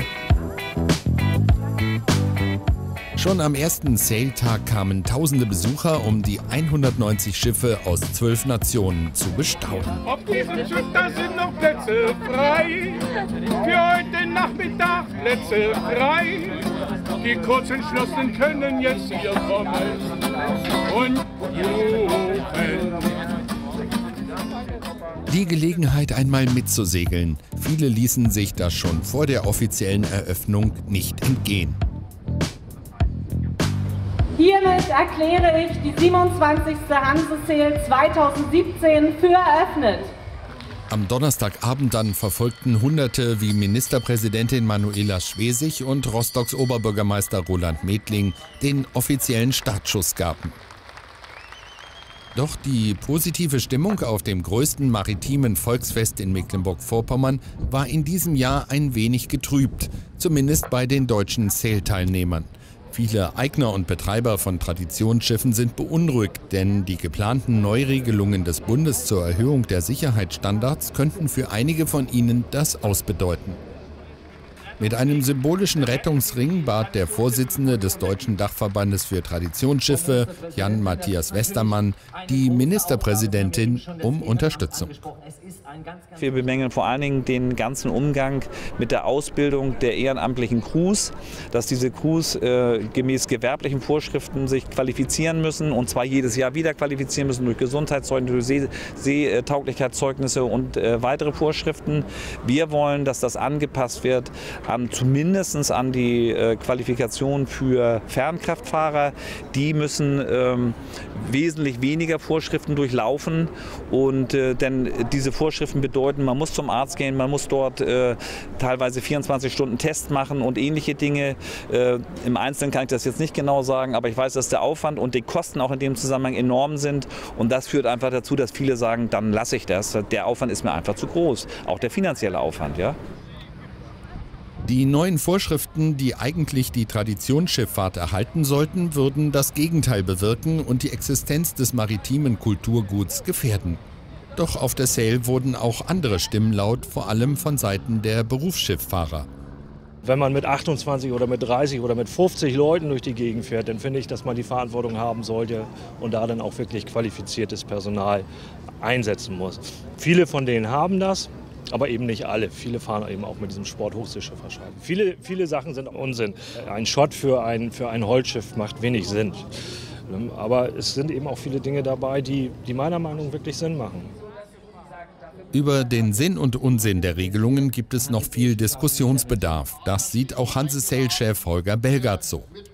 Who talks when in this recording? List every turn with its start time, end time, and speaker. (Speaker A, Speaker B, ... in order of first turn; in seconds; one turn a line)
Speaker A: 3.2-10.0
Speaker B: 10.1-13.0
Speaker B: 13.6-16.6
Speaker B: 17.2-20.2
Speaker B: 20.9-23.0
Speaker A: 25.3-31.8
Speaker C: 34.4-40.1
Speaker A: 40.9-50.5
Speaker A: 52.4-73.6
Speaker A: 74.8-85.1
Speaker D: 86.2-133.0
Speaker A: 134.7-143.8
Speaker A: 144.4-149.3
Speaker E: 150.0-158.3
Speaker E: 158.8-169.5
Speaker E: 170.1-174.1
Speaker A: 175.5-182.5